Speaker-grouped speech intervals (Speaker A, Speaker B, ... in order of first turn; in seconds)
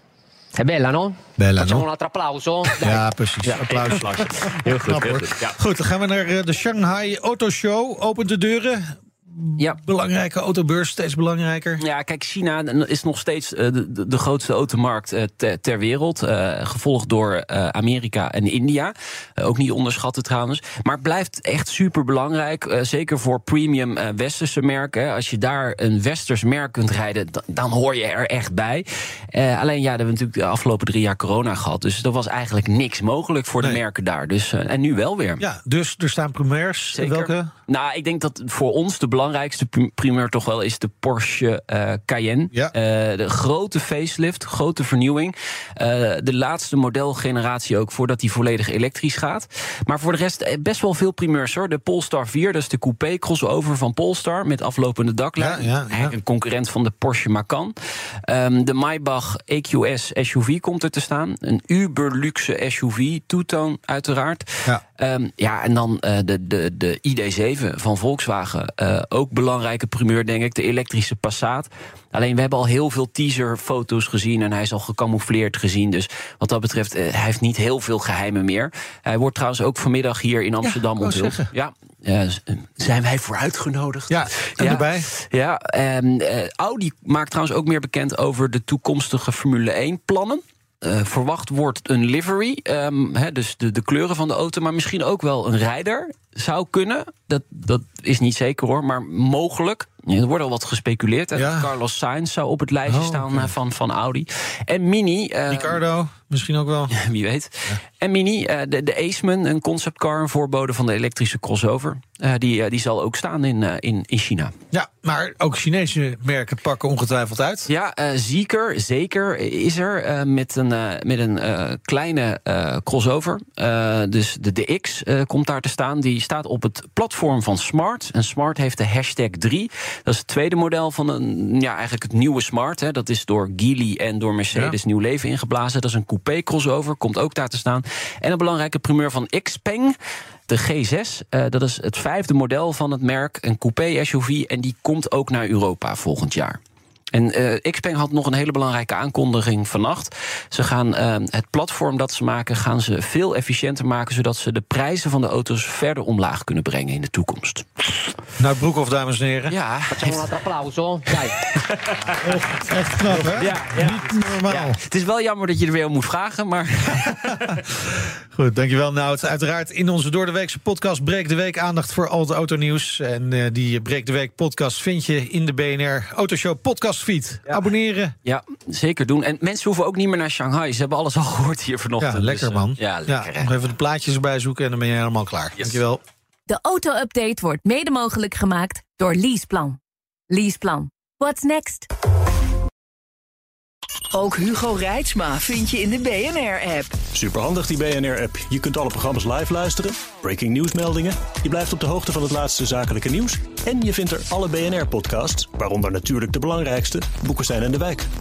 Speaker A: 0.5-3.0, 159.9-161.4
Speaker B: 1.4-1.9, 2.8-11.8, 35.4-37.5, 55.4-56.1, 80.6-81.5, 84.1-85.1, 101.3-101.7, 102.9-103.5, 105.5-106.9, 114.7-117.7, 158.4-159.6, 162.2-164.8, 167.3-167.7, 168.3-178.1, 182.0-186.0
Speaker C: 3.4-5.6, 11.8-35.4, 36.9-105.8, 106.9-114.5, 117.7-139.9, 140.5-146.6, 147.1-157.8, 159.5-160.3, 161.2-162.5, 163.1-167.5, 178.2-183.5
Speaker D: 186.5-189.8, 190.3-191.9
Speaker E: 194.1-196.9
Speaker F: 197.2-208.0